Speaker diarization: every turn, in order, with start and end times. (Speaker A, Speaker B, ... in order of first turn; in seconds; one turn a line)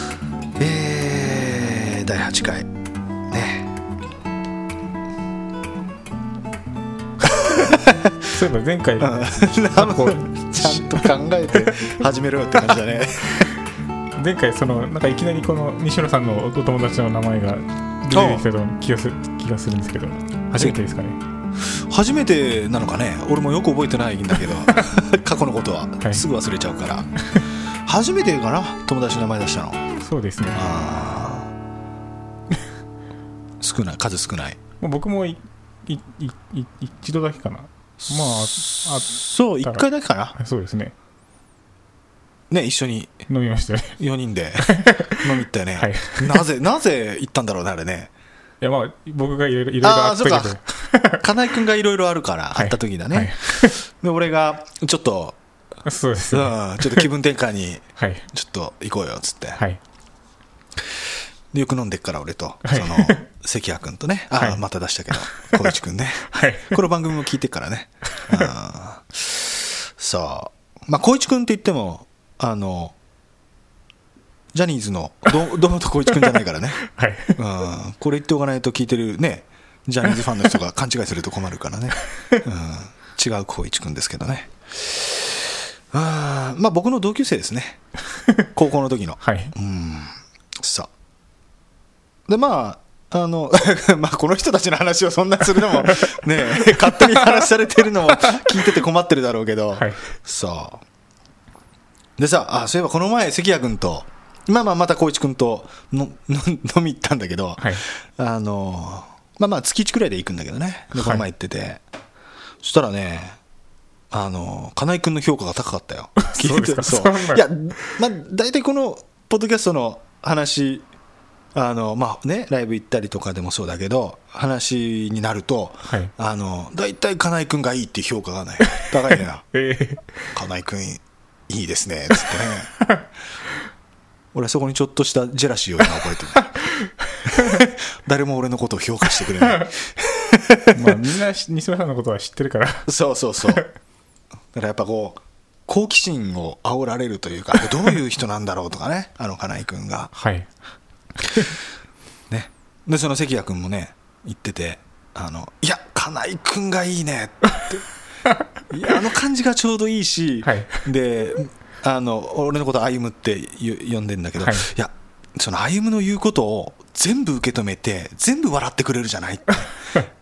Speaker A: 0.6-2.7
Speaker A: 3.3-3.7
Speaker B: 7.4-7.7
Speaker A: 7.4-8.3
Speaker B: 8.2-11.9
Speaker A: 9.0-13.5
Speaker B: 14.2-21.2
Speaker A: 18.1-18.4
Speaker A: 21.6-27.1
Speaker A: 27.8-29.8
Speaker B: 30.0-30.6
Speaker A: 30.5-31.5
Speaker A: 33.6-34.6
Speaker B: 34.8-40.9
Speaker A: 38.0-40.3
Speaker A: 42.5-43.2
Speaker B: 43.3-44.0
Speaker A: 44.0-48.1
Speaker B: 44.6-46.4
Speaker B: 48.6-51.2
Speaker A: 49.8-50.6
Speaker A: 51.2-55.4
Speaker B: 52.5-53.8
Speaker B: 55.8-57.1
Speaker A: 56.3-59.6
Speaker B: 58.0-58.2
Speaker A: 61.5-73.0
Speaker B: 62.6-63.2
Speaker B: 65.2-65.7
Speaker B: 66.3-66.8
Speaker B: 68.2-68.4
Speaker A: 74.5-76.8
Speaker B: 76.2-77.4
Speaker A: 77.3-87.8
Speaker B: 82.2-82.4
Speaker A: 88.5-90.9
Speaker B: 89.2-89.5
Speaker A: 92.3-100.8
Speaker B: 96.0-97.4
Speaker B: 98.2-98.6
Speaker B: 99.8-100.0
Speaker A: 102.2-111.8
Speaker B: 110.9-111.2
Speaker A: 112.6-113.4
Speaker A: 114.1-120.8
Speaker B: 116.2-118.0
Speaker A: 121.5-129.5
Speaker B: 128.7-128.9
Speaker B: 129.5-130.3
Speaker A: 130.3-132.7
Speaker B: 132.1-133.0
Speaker A: 134.3-136.6
Speaker B: 136.7-137.6
Speaker A: 137.3-141.0
Speaker B: 139.4-139.7
Speaker B: 140.7-142.9
Speaker A: 142.9-143.6
Speaker B: 143.4-143.7
Speaker A: 144.5-150.1
Speaker B: 150.1-150.5
Speaker A: 152.3-157.8
Speaker A: 158.7-169.7
Speaker B: 160.4-160.8
Speaker B: 164.4-164.7